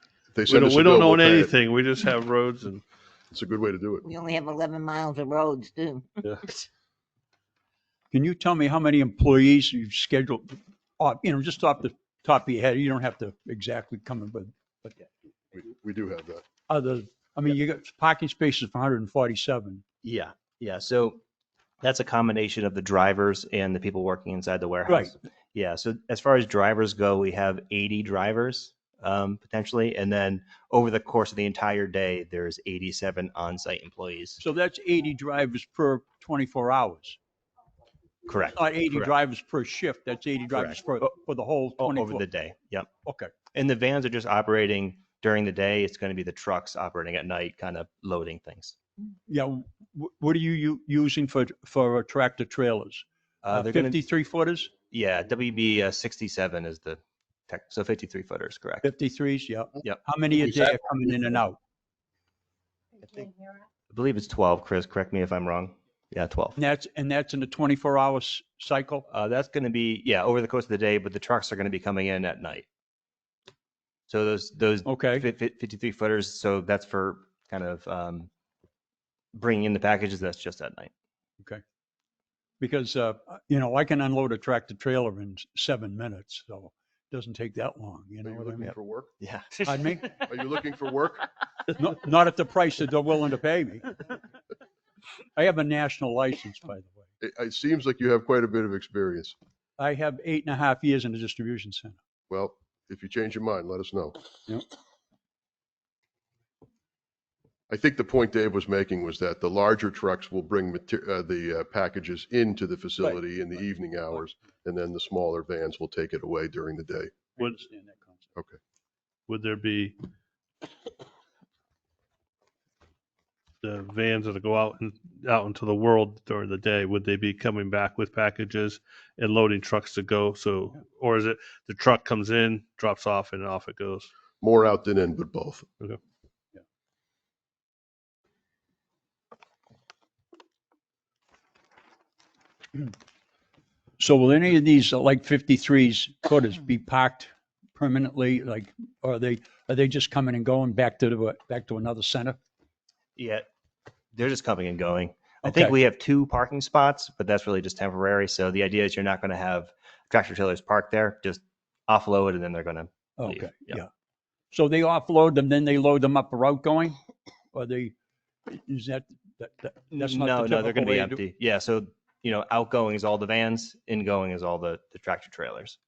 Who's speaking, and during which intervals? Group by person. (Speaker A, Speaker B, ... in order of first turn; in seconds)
Speaker A: 0.3-1.5, 3.3-4.0, 15.5-16.4, 88.2-89.1, 90.2-91.3, 97.2-99.4, 102.3-104.2, 107.7-117.1, 134.4-135.7
Speaker B: 0.5-2.8, 119.3-120.0, 123.6-134.1
Speaker C: 4.1-6.1
Speaker D: 8.1-15.0, 16.7-19.8, 24.9-25.1, 34.4-37.2, 38.5-42.3, 42.9-43.3, 49.3-54.7, 58.8-61.6, 66.5-69.1, 74.8-75.3, 82.6-88.7, 89.7-90.0, 91.8-94.0, 95.4-97.1, 99.8-102.0, 117.4-118.3, 144.0-152.4, 155.4-155.8, 163.2-163.9, 164.5-167.0, 167.5-167.9, 168.5-171.2
Speaker E: 20.0-21.2, 21.8-34.4, 38.3-39.1, 40.5-41.1, 41.8-42.9, 43.5-48.8, 53.4-54.0, 54.9-58.9, 63.0-63.3, 63.9-66.6, 69.1-72.7, 74.1-78.3, 79.3-80.9, 88.6-89.5, 153.2-153.5, 154.1-163.8, 169.9-175.8